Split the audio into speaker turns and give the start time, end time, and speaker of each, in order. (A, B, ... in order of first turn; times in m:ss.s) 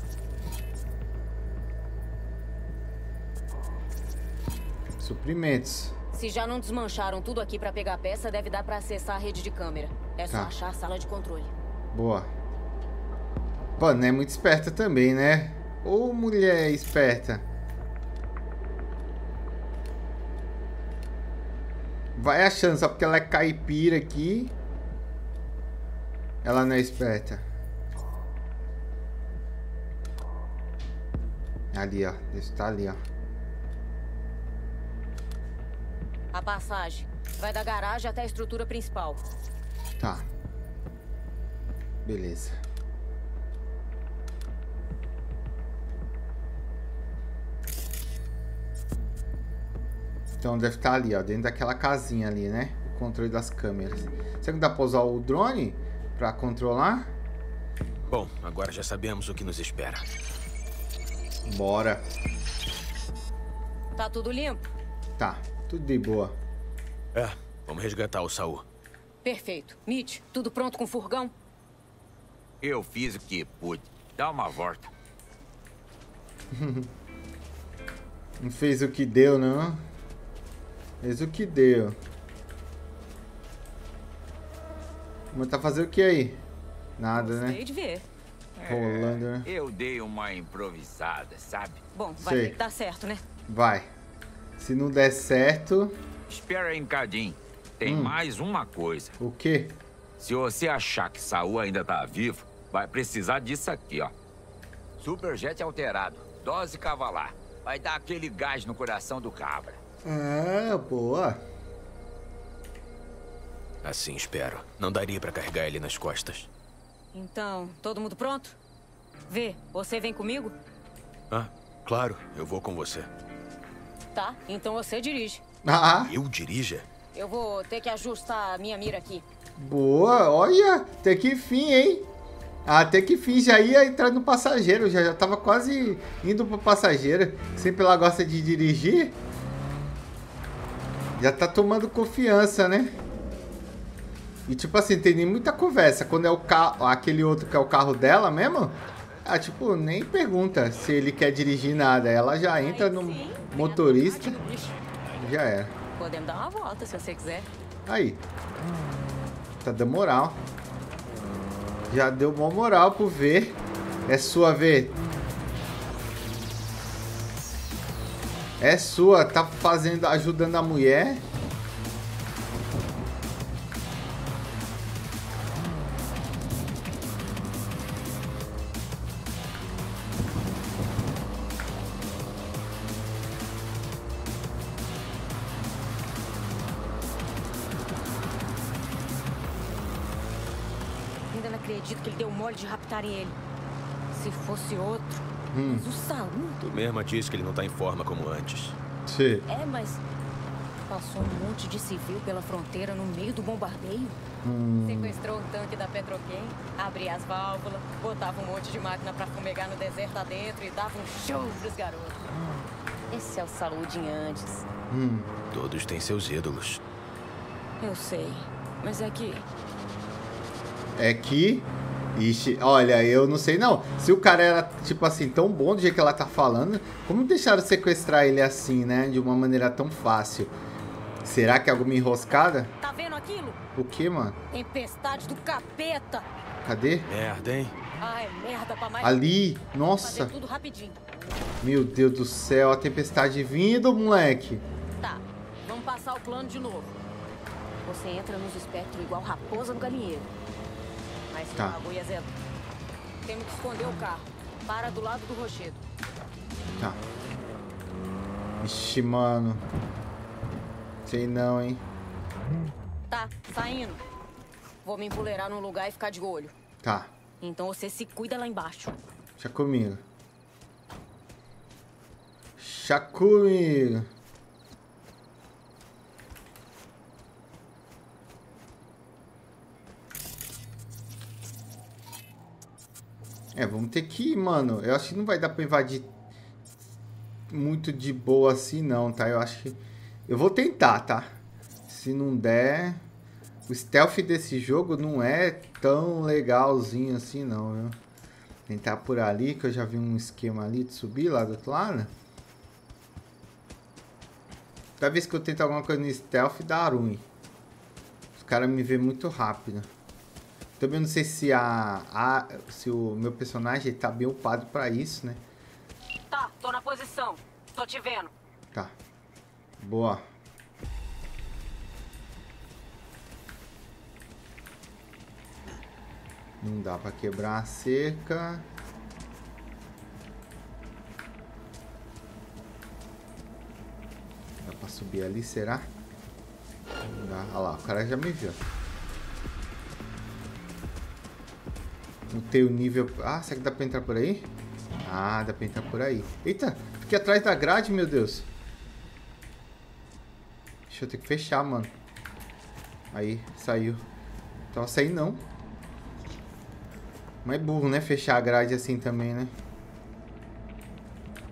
0:05.0-0:06.0 A
0:06.1-0:11.5 B
0:11.9-0:12.3 A
0:13.8-0:17.4 A
0:22.2-0:24.5 A
0:26.4-0:27.4 A
0:31.7-0:33.0 A
0:36.3-0:39.2 B
0:40.0-0:40.3 A
0:42.0-0:42.6 A
0:50.4-0:57.1 A
0:58.1-1:00.1 C
1:01.5-1:02.0 A
1:04.0-1:04.6 B
1:05.2-1:06.4 A
1:07.1-1:08.6 C
1:09.2-1:11.3 B
1:12.6-1:14.9 D
1:16.5-1:16.9 A
1:18.4-1:19.8 A
1:21.0-1:22.0 A
1:25.3-1:26.4 A
1:27.0-1:27.6 A
1:27.2-1:28.0 B
1:28.6-1:31.8 D
1:28.6-1:29.5 A
1:31.9-1:33.2 B
1:32.2-1:32.6 A
1:33.5-1:33.9 A
1:34.6-1:36.0 A
1:36.3-1:39.1 D
1:37.8-1:38.2 A
1:39.2-1:39.7 A
1:40.2-1:44.1 D
1:45.0-1:49.8 D
1:50.0-1:51.4 A
1:53.8-1:56.5 C
1:57.1-1:58.6 B
1:59.3-2:00.5 B
2:01.3-2:03.1 C
2:04.2-2:05.4 B
2:05.6-2:06.1 A
2:06.1-2:06.8 C
2:07.2-2:09.2 B
2:09.6-2:12.1 A
2:12.6-2:19.2 A
2:21.2-2:22.9 A
2:24.5-2:34.4 A
2:32.6-2:34.8 B
2:35.2-2:35.7 A
2:36.0-2:37.5 B
2:37.9-2:38.2 A
2:39.6-2:40.4 A
2:41.9-2:43.6 A
2:44.1-2:45.0 A
2:48.6-2:51.2 A
3:11.3-3:13.4 B
3:14.1-3:16.6 B
3:15.5-3:15.8 A
3:16.6-3:18.8 C
3:19.1-3:19.4 A
3:19.5-3:20.0 B
3:20.9-3:24.2 B
3:24.4-3:25.2 A
3:24.9-3:32.3 B
3:33.1-3:34.7 B
3:34.9-3:35.3 A
3:35.5-3:36.8 C
3:37.8-3:39.4 B
3:41.0-3:50.5 A
3:51.2-3:52.7 A
3:52.8-3:53.6 B
3:53.8-3:54.4 A
3:54.5-3:56.3 B
3:56.6-3:57.1 A
3:57.1-3:57.8 C
3:58.0-3:59.2 B
3:59.0-4:00.3 A
4:00.0-4:01.0 B
4:01.6-4:04.6 A
4:05.0-4:07.0 B
4:07.8-4:10.3 B
4:11.3-4:12.3 B
4:13.2-4:15.8 B
4:16.7-4:17.0 A
4:18.6-4:19.6 A
4:21.1-4:21.8 A
4:23.1-4:24.0 B
4:24.8-4:26.5 B
4:26.8-4:27.1 A
4:27.4-4:29.0 B
4:29.4-4:30.0 A
4:32.6-4:34.1 A
4:43.6-4:46.1 A
4:47.5-4:51.3 A
4:51.9-4:53.0 A
4:53.7-4:58.0 A
4:58.7-5:02.1 A
5:05.0-5:07.2 A
5:08.4-5:09.9 A
5:10.8-5:15.4 A
5:16.3-5:18.3 B
5:19.8-5:20.2 A
5:26.6-5:28.7 A
5:34.6-5:35.9 A
5:37.0-5:38.6 A
5:42.3-5:44.5 A
5:45.0-5:48.5 A
5:50.9-5:51.9 A
5:53.1-5:54.0 A
5:54.7-5:55.4 A
5:57.4-5:59.5 A